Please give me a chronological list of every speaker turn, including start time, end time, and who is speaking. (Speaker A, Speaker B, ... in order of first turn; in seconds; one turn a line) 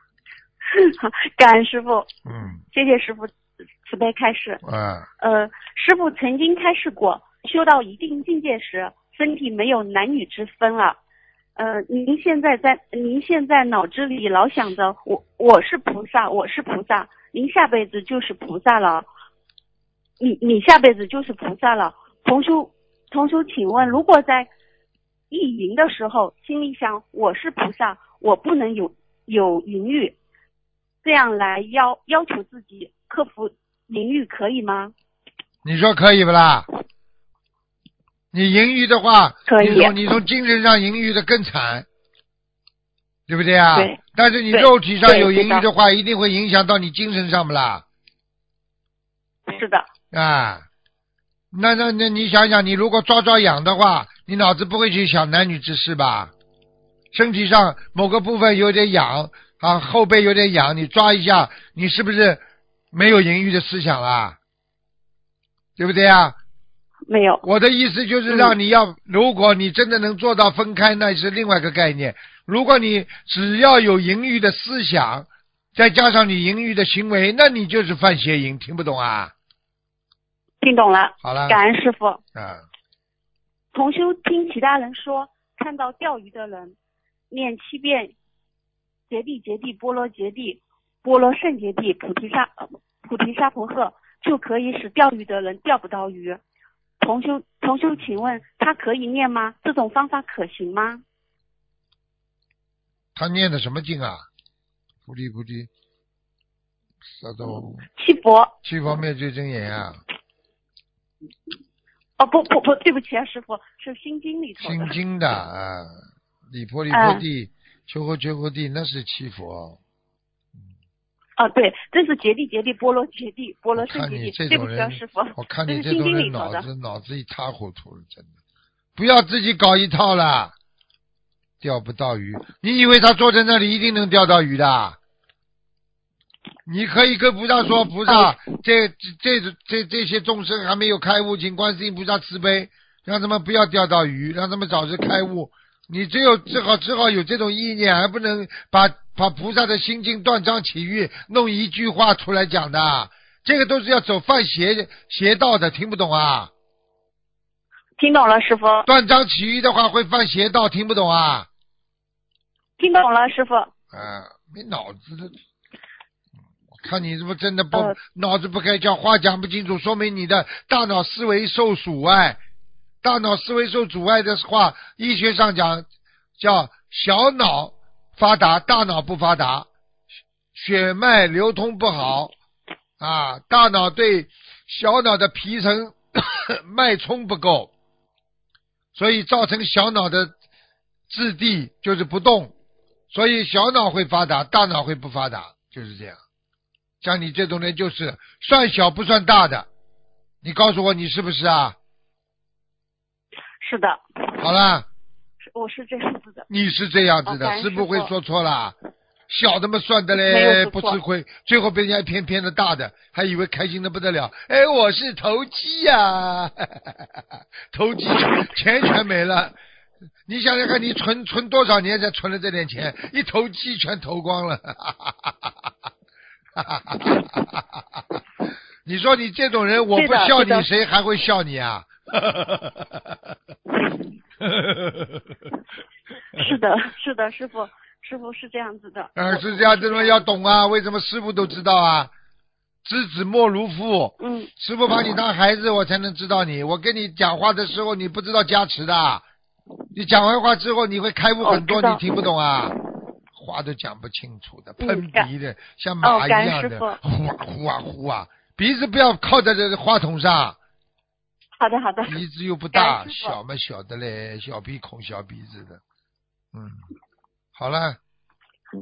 Speaker A: 0.7-2.1
Speaker B: 2.3-2.6
Speaker A: 2.7-4.6
Speaker B: 4.6-5.1
Speaker A: 5.2-11.0
Speaker A: 11.6-19.1
Speaker A: 20.2-24.5
Speaker A: 25.3-30.2
Speaker A: 31.0-34.9
Speaker B: 35.6-36.7
Speaker B: 38.3-41.9
Speaker A: 39.5-40.0
Speaker B: 43.3-47.8
Speaker A: 43.7-44.0
Speaker A: 44.5-45.7
Speaker A: 49.5-49.9
Speaker B: 50.1-50.6
Speaker B: 51.5-56.3
Speaker B: 57.1-64.4
Speaker B: 65.8-66.4
Speaker A: 67.1-67.4
Speaker B: 67.4-79.3
Speaker A: 68.3-68.5
Speaker A: 80.6-82.2
Speaker B: 81.2-81.6
Speaker B: 82.3-82.6
Speaker A: 83.7-86.8
Speaker A: 87.3-88.1
Speaker A: 89.1-96.4
Speaker A: 97.0-101.0
Speaker B: 103.2-104.2
Speaker B: 105.1-105.7
Speaker B: 107.1-107.8
Speaker A: 108.0-108.5
Speaker B: 108.6-110.0
Speaker A: 112.2-115.0
Speaker B: 114.6-116.0
Speaker B: 116.5-119.8
Speaker A: 116.9-117.2
Speaker A: 121.4-126.7
Speaker B: 123.8-128.3
Speaker B: 128.9-130.5
Speaker B: 131.6-135.0
Speaker B: 136.7-156.5
Speaker A: 158.0-158.9
Speaker B: 158.9-161.5
Speaker A: 162.8-163.7
Speaker B: 163.9-165.3
Speaker B: 166.8-172.4
Speaker B: 173.0-175.8
Speaker B: 176.4-179.7
Speaker B: 180.5-182.3
Speaker B: 183.0-187.7
Speaker B: 188.9-190.3
Speaker B: 191.1-192.5
Speaker B: 193.1-196.2
Speaker B: 197.0-199.7
Speaker B: 200.4-201.8
Speaker A: 203.6-204.0
Speaker B: 204.4-204.9
Speaker A: 205.4-206.5
Speaker B: 206.5-208.8
Speaker A: 207.2-208.1
Speaker B: 209.3-216.9
Speaker A: 210.1-211.0
Speaker B: 217.7-219.6
Speaker B: 220.3-225.3
Speaker B: 226.6-227.5
Speaker B: 228.8-233.0
Speaker A: 229.9-230.7
Speaker B: 234.5-235.0
Speaker A: 236.3-240.2
Speaker B: 239.2-242.1
Speaker B: 242.8-249.2
Speaker A: 244.2-244.5
Speaker B: 249.9-252.7
Speaker A: 251.4-252.0
Speaker B: 253.3-260.6
Speaker A: 254.8-255.3
Speaker A: 256.0-257.0
Speaker A: 261.6-262.2
Speaker B: 262.1-265.8
Speaker A: 262.7-263.4
Speaker B: 266.5-266.8
Speaker B: 267.6-268.0